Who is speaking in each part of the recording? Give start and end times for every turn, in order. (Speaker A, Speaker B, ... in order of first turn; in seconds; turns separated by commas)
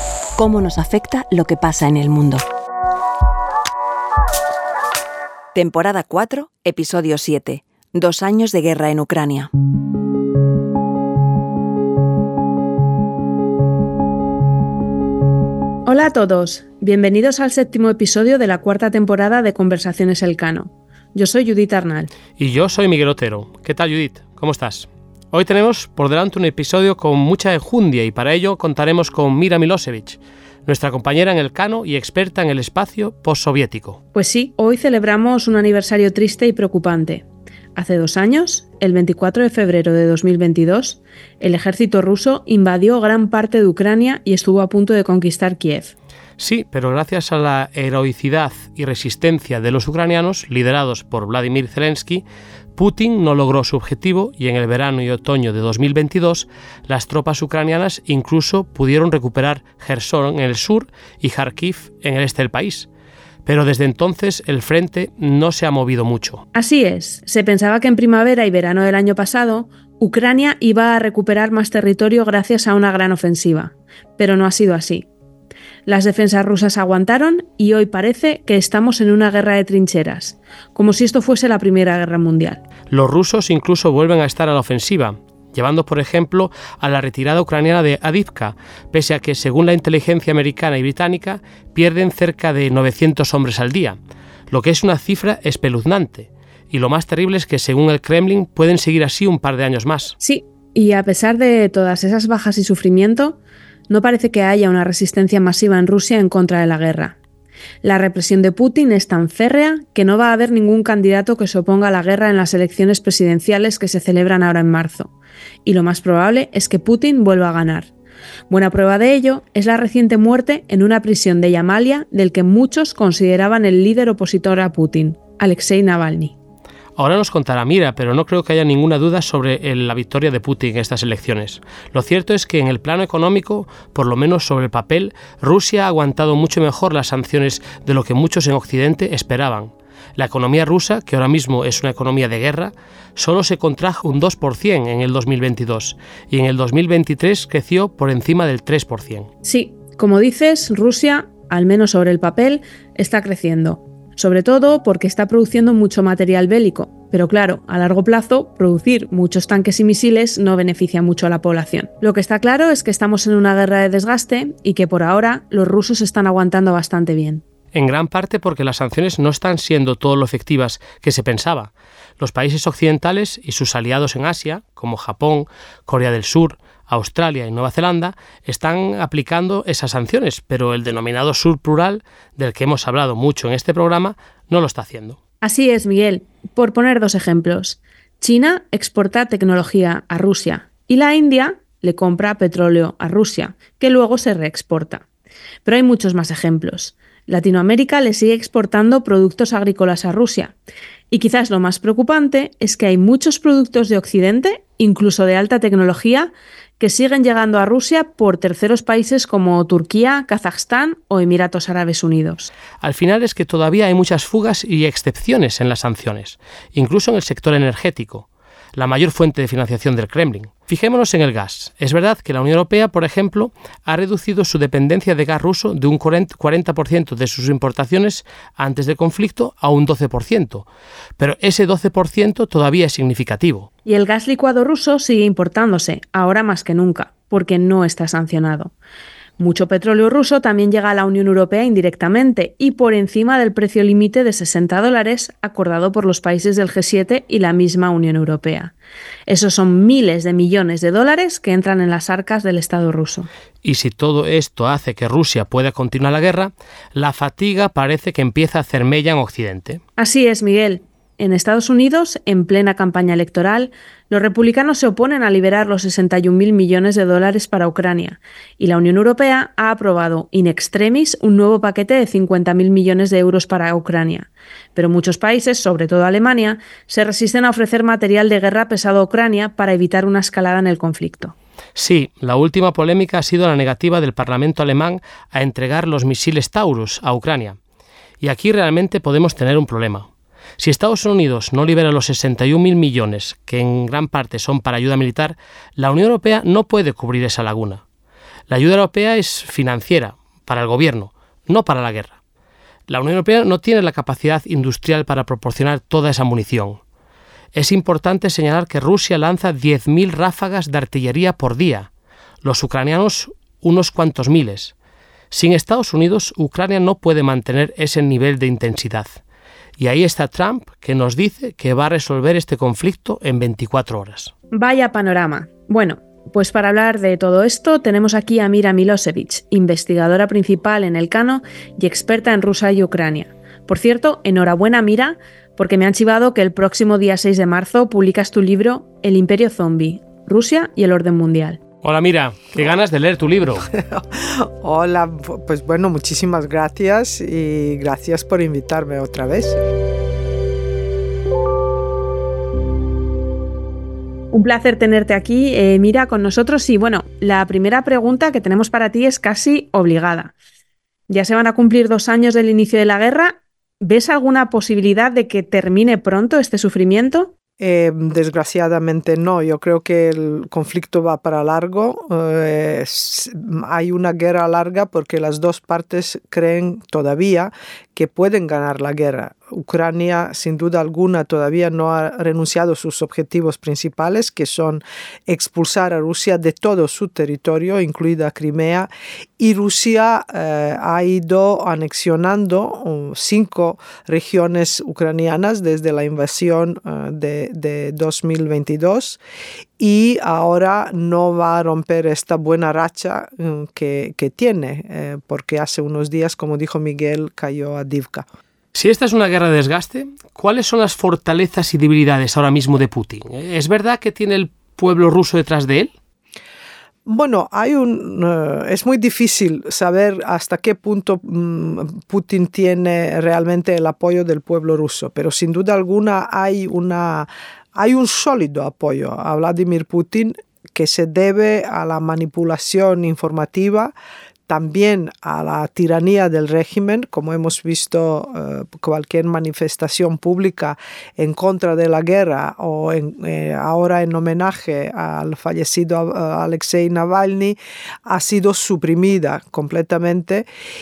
Speaker A: 0.3-2.4, Speaker A: 5.5-9.5, Speaker B: 15.9-22.1, Speaker C: 22.4-34.0, Speaker B: 34.1-45.9, Speaker C: 46.4-52.2, Speaker C: 52.8-62.9, Speaker C: 63.4-66.4, Speaker B: 66.5-75.1, Speaker B: 75.8-82.6, Speaker C: 82.9-94.0, Speaker C: 94.5-100.1, Speaker B: 100.2-103.4, Speaker B: 103.9-107.2, Speaker B: 107.8-115.1, Speaker B: 115.6-117.9, Speaker B: 118.5-126.3, Speaker C: 127.0-149.3, Speaker B: 149.4-167.4, Speaker C: 167.7-185.2, Speaker B: 185.4-195.0, Speaker B: 195.6-200.5, Speaker B: 201.1-212.5, Speaker C: 212.8-230.7, Speaker C: 231.2-233.7, Speaker B: 233.8-238.7, Speaker B: 239.4-248.7, Speaker B: 249.3-253.3, Speaker C: 253.6-259.8, Speaker B: 260.0-281.3, Speaker C: 281.8-287.6, Speaker C: 288.2-290.1, Speaker C: 290.6-297.8, Speaker C: 298.5-302.2, Speaker C: 302.9-306.8, Speaker C: 307.5-311.9, Speaker C: 312.4-314.7, Speaker C: 315.3-319.2, Speaker C: 319.8-324.3, Speaker B: 324.5-341.6, Speaker C: 341.8-343.7, Speaker D: 343.7-349.6, Speaker B: 354.3-360.3, Speaker B: 361.1-367.3, Speaker D: 367.6-399.2, Speaker D: 399.8-408.2, Speaker C: 408.7-415.9, Speaker D: 417.1-433.9, Speaker D: 434.5-450.5